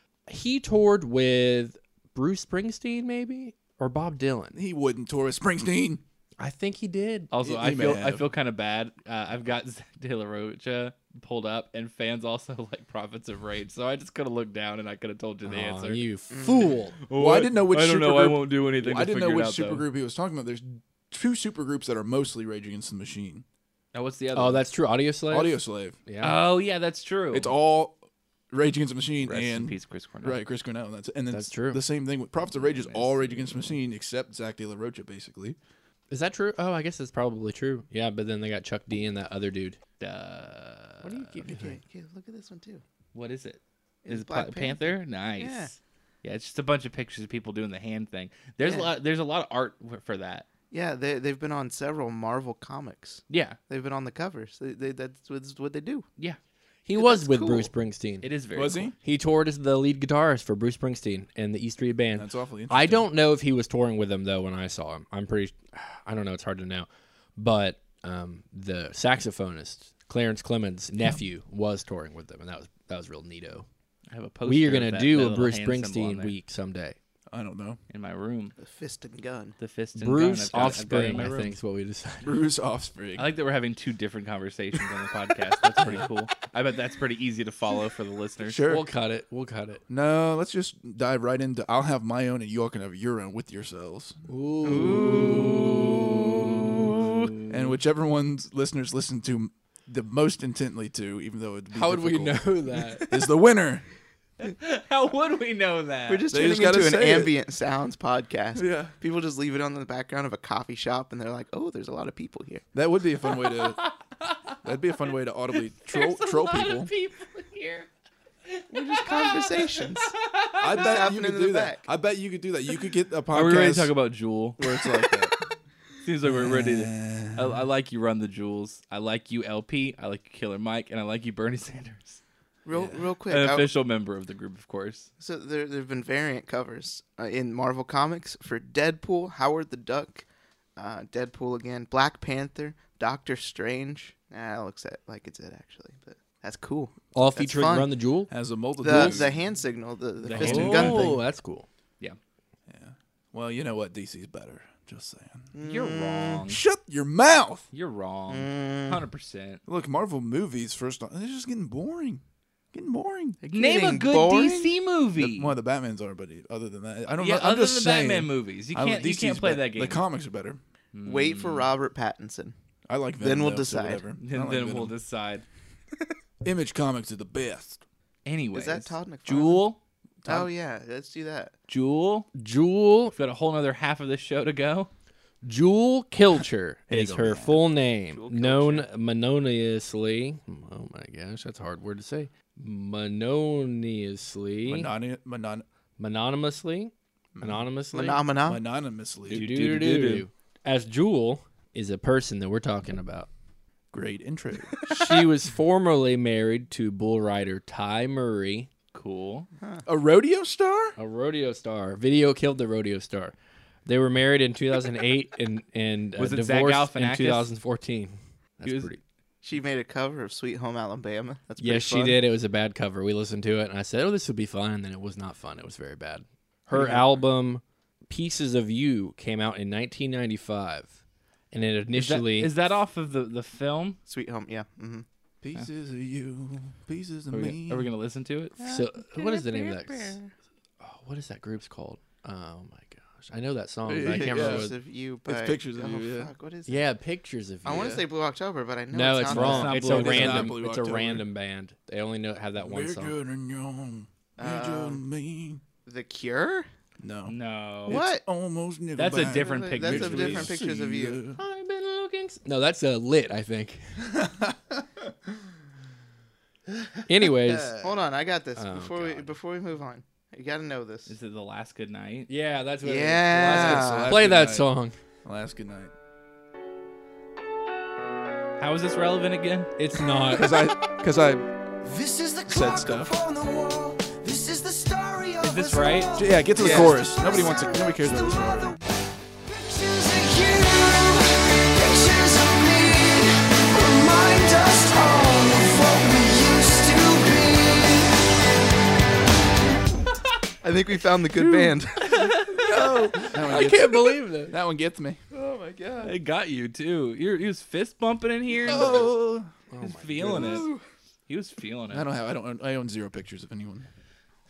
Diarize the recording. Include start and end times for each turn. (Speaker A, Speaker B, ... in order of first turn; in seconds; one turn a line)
Speaker A: 0.3-4.6
Speaker B: 4.5-6.0
Speaker A: 6.4-7.3
Speaker C: 7.3-16.0
Speaker B: 7.4-8.3
Speaker A: 15.4-17.0
Speaker D: 16.3-16.7
Speaker C: 17.1-19.9
Speaker B: 17.1-23.4
Speaker C: 23.9-24.7
Speaker A: 24.3-26.4
Speaker B: 25.3-26.0
Speaker C: 26.2-27.5
Speaker B: 27.3-35.6
Speaker C: 29.2-30.4
Speaker A: 31.3-31.8
Speaker C: 32.5-33.7
Speaker A: 36.1-39.8
Speaker C: 40.0-41.0
Speaker A: 41.0-41.8
Speaker D: 41.1-42.8
Speaker C: 43.1-50.5
Speaker D: 44.0-45.7
Speaker D: 48.6-48.9
Speaker D: 50.7-56.0
Speaker C: 53.3-53.6
Speaker A: 56.9-58.3
Speaker D: 56.9-57.7
Speaker C: 58.2-58.9
Speaker B: 58.5-58.9
Speaker A: 59.0-73.7
Speaker B: 62.1-63.1
Speaker C: 74.1-76.4
Speaker A: 74.5-77.0
Speaker B: 77.3-77.8
Speaker C: 77.9-78.5
Speaker D: 78.6-79.5
Speaker C: 79.6-81.5
Speaker A: 79.9-82.4
Speaker B: 82.2-83.3
Speaker C: 83.2-88.6
Speaker B: 88.4-88.8
Speaker A: 88.7-89.8
Speaker B: 89.9-94.2
Speaker A: 94.3-97.7
Speaker D: 94.6-97.3
Speaker B: 97.5-103.8
Speaker A: 101.7-103.1
Speaker C: 104.4-106.3
Speaker D: 106.1-112.6
Speaker B: 106.3-107.3
Speaker B: 108.5-108.9
Speaker B: 112.7-113.8
Speaker C: 113.5-114.5
Speaker B: 114.6-116.9
Speaker C: 115.5-117.9
Speaker C: 118.5-121.0
Speaker D: 118.7-120.1
Speaker B: 120.6-123.9
Speaker D: 120.7-121.8
Speaker C: 123.3-125.1
Speaker B: 124.6-125.3
Speaker C: 126.0-132.2
Speaker B: 126.2-127.6
Speaker D: 132.7-133.7
Speaker B: 132.7-133.0
Speaker C: 133.3-135.1
Speaker D: 135.2-140.2
Speaker D: 140.8-147.9
Speaker A: 147.1-148.3
Speaker B: 148.3-149.4
Speaker D: 148.8-151.2
Speaker A: 148.8-149.2
Speaker C: 150.2-151.1
Speaker A: 150.3-151.7
Speaker B: 150.4-151.0
Speaker B: 152.7-155.5
Speaker D: 155.5-156.4
Speaker C: 155.6-156.6
Speaker B: 156.5-157.7
Speaker C: 157.7-159.6
Speaker D: 158.3-159.1
Speaker B: 159.7-163.4
Speaker D: 163.4-164.7
Speaker C: 163.5-165.6
Speaker B: 165.2-170.6
Speaker C: 167.2-170.0
Speaker C: 170.9-171.7
Speaker D: 171.0-172.5
Speaker B: 172.9-174.9
Speaker D: 173.2-174.0
Speaker C: 174.2-175.4
Speaker B: 176.4-177.8
Speaker C: 178.2-179.8
Speaker D: 178.5-179.6
Speaker B: 180.2-180.5
Speaker D: 180.2-181.5
Speaker C: 181.7-182.3
Speaker A: 182.3-183.1
Speaker C: 183.1-184.9
Speaker A: 185.4-194.9
Speaker B: 186.9-187.6
Speaker D: 188.1-188.9
Speaker B: 194.7-195.6
Speaker A: 196.0-198.2
Speaker B: 197.3-197.7
Speaker D: 197.9-198.6
Speaker B: 198.4-199.4
Speaker C: 199.3-200.3
Speaker A: 199.3-203.3
Speaker B: 203.9-204.9
Speaker A: 204.9-208.7
Speaker C: 208.9-209.5
Speaker B: 209.8-210.9
Speaker A: 211.0-213.3
Speaker A: 213.8-219.0
Speaker C: 216.2-217.5
Speaker C: 218.6-218.9
Speaker D: 219.4-222.2
Speaker A: 221.6-230.9
Speaker C: 226.7-227.1
Speaker A: 231.5-232.5
Speaker C: 231.9-234.0
Speaker D: 234.1-235.0
Speaker B: 235.4-237.9
Speaker C: 237.3-238.6
Speaker D: 238.6-240.3
Speaker A: 238.6-240.2
Speaker A: 240.8-244.8
Speaker B: 243.8-244.7
Speaker D: 244.0-246.9
Speaker B: 245.2-246.3
Speaker A: 246.7-248.0
Speaker D: 247.6-249.9
Speaker B: 247.7-248.0
Speaker A: 248.9-253.2
Speaker C: 249.3-250.5
Speaker B: 249.3-251.2
Speaker B: 252.6-255.6
Speaker D: 254.4-255.0
Speaker D: 255.8-256.7
Speaker B: 257.0-261.4
Speaker C: 257.3-258.0
Speaker D: 257.9-258.2
Speaker C: 258.9-260.5
Speaker D: 259.1-261.2
Speaker A: 261.4-263.8
Speaker B: 264.1-264.9
Speaker A: 267.1-267.9
Speaker D: 267.4-271.1
Speaker A: 268.6-269.4
Speaker C: 271.1-272.3
Speaker A: 272.3-274.9
Speaker D: 272.8-274.1
Speaker B: 273.4-274.7
Speaker B: 275.2-275.9
Speaker C: 278.6-279.7
Speaker A: 279.8-280.6
Speaker B: 280.3-281.5
Speaker E: 281.8-288.8
Speaker B: 282.5-283.1
Speaker C: 285.4-286.1
Speaker B: 286.1-288.7
Speaker E: 289.4-298.1
Speaker D: 300.6-302.4
Speaker B: 301.4-301.7
Speaker C: 302.1-302.7
Speaker B: 302.5-305.2
Speaker A: 303.2-304.5
Speaker D: 305.3-306.1
Speaker C: 306.0-309.1
Speaker B: 308.6-309.5
Speaker A: 309.7-310.6
Speaker C: 309.8-310.7
Speaker D: 310.2-310.8
Speaker C: 311.3-312.1
Speaker B: 311.9-313.9